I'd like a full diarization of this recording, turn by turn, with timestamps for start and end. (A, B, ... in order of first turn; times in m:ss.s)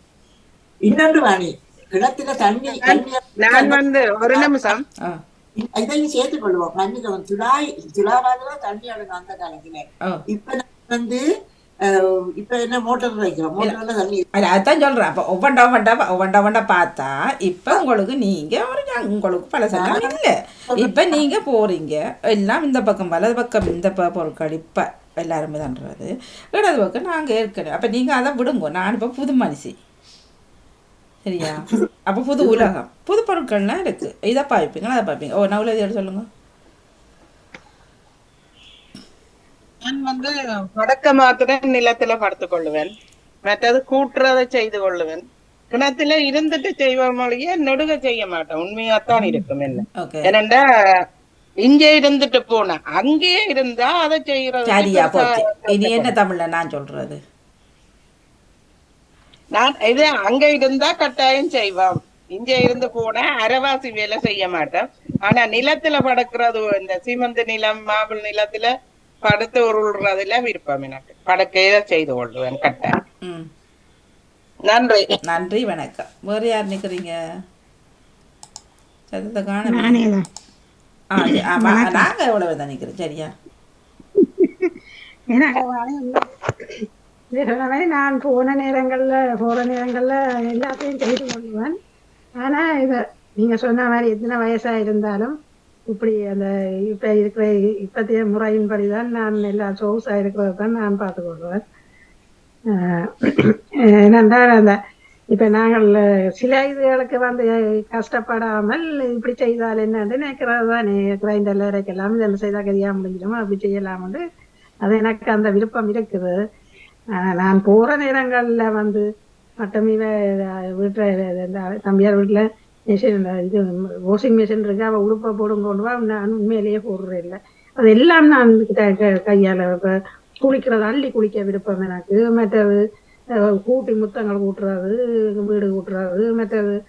0:00.9-0:04.5 A
0:02.8-0:04.8 B
0:05.6-0:11.2 A
0:11.9-0:14.2 A
0:14.4-0:29.7 C
0:19.7-0:20.2 A
0:20.7-0:21.2 A
0:31.2-0:36.3 C
0:32.4-0:32.7 A
0:39.8-0:42.9 B
0:43.5-0:50.6 B
0:50.0-0:50.3 C
0:51.7-0:56.1 B
0:54.7-0:57.2 C
0:59.6-1:08.7 B
1:09.2-1:13.0 B
1:14.7-1:15.1 B
1:15.2-1:17.2 C
1:19.1-1:20.0 C
1:19.7-1:20.2 D
1:21.1-1:23.3 C
1:21.6-1:22.0 D
1:24.2-1:24.7 D
1:25.3-1:26.3 D
1:27.4-1:31.8 D
1:32.4-1:35.4 D
1:35.9-1:41.6 D
1:42.8-1:43.5 D
1:44.0-1:44.8 D
1:45.3-1:54.2 D
1:54.8-1:56.3 D
1:57.2-1:59.0 D
1:59.6-2:00.1 D
2:00.8-2:12.8 D
2:13.6-2:16.8 D